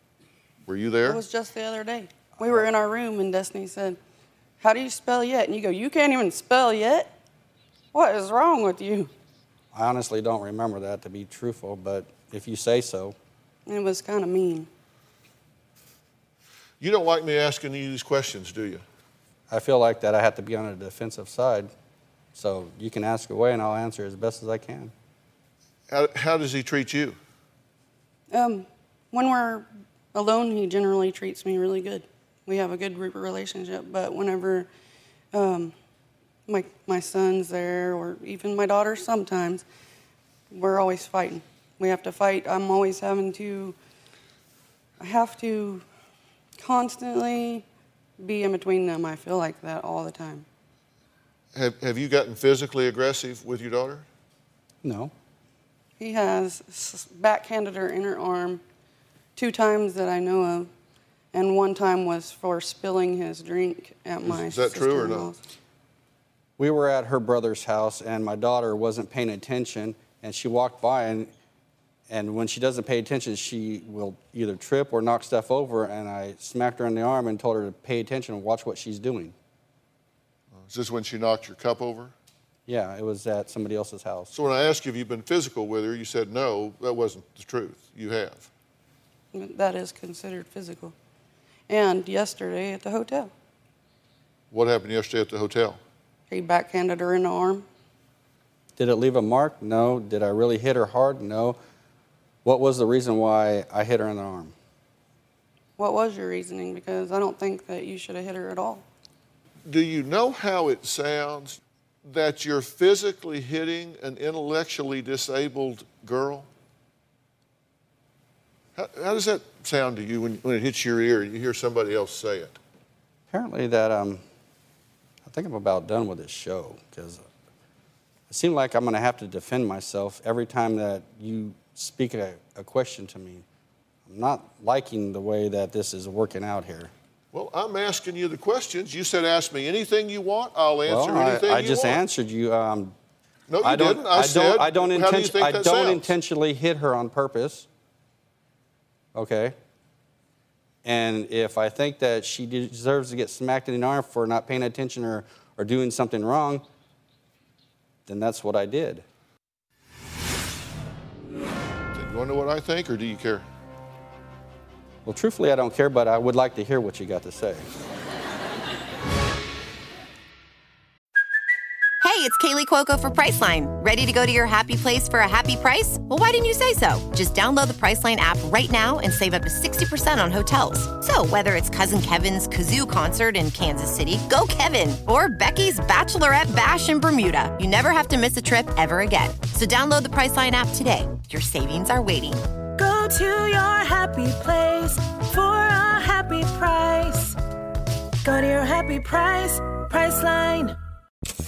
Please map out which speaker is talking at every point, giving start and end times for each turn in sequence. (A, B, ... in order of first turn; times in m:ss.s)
0:00.6-0:01.2 A
0:01.0-0:04.0 B
0:04.6-0:07.1 B
0:07.9-0:09.1 B
0:09.7-0:13.2 C
0:13.7-0:14.7 B
0:16.8-0:18.8 A
0:19.5-0:21.7 C
0:22.3-0:24.9 C
0:25.9-0:27.2 A
0:28.3-0:34.7 B
0:35.3-0:35.7 B
0:36.5-0:39.6 B
0:40.5-0:43.8 B
0:45.0-0:45.8 B
0:46.6-0:47.6 B
0:48.2-0:50.4 B
0:51.5-0:54.1 A
0:54.8-0:55.1 C
0:56.0-0:58.6 B
0:59.3-1:00.7 B
1:01.3-1:05.4 B
1:04.2-1:05.3 A
1:06.6-1:11.3 C
1:12.1-1:19.3 C
1:20.6-1:22.1 A
1:22.7-1:24.3 C
1:24.3-1:28.5 A
1:29.3-1:30.9 B
1:31.7-1:33.3 B
1:34.5-1:35.8 A
1:36.3-1:37.6 B
1:38.8-1:41.6 C
1:42.4-1:44.5 C
1:45.8-1:48.8 B
1:49.6-1:56.5 A
1:58.8-2:02.6 A
2:03.3-2:04.2 C
2:05.2-2:07.2 C
2:08.3-2:13.4 C
2:14.0-2:16.9 C
2:17.3-2:22.0 A
2:20.9-2:23.0 C
2:23.5-2:26.1 A
2:23.6-2:27.7 C
2:29.1-2:29.6 C
2:30.8-2:36.6 C
2:38.0-2:39.0 C
2:41.9-2:43.4 A
2:45.0-2:47.7 C
2:52.0-3:12.4 D
3:12.8-3:17.3 E
3:18.2-3:20.6 E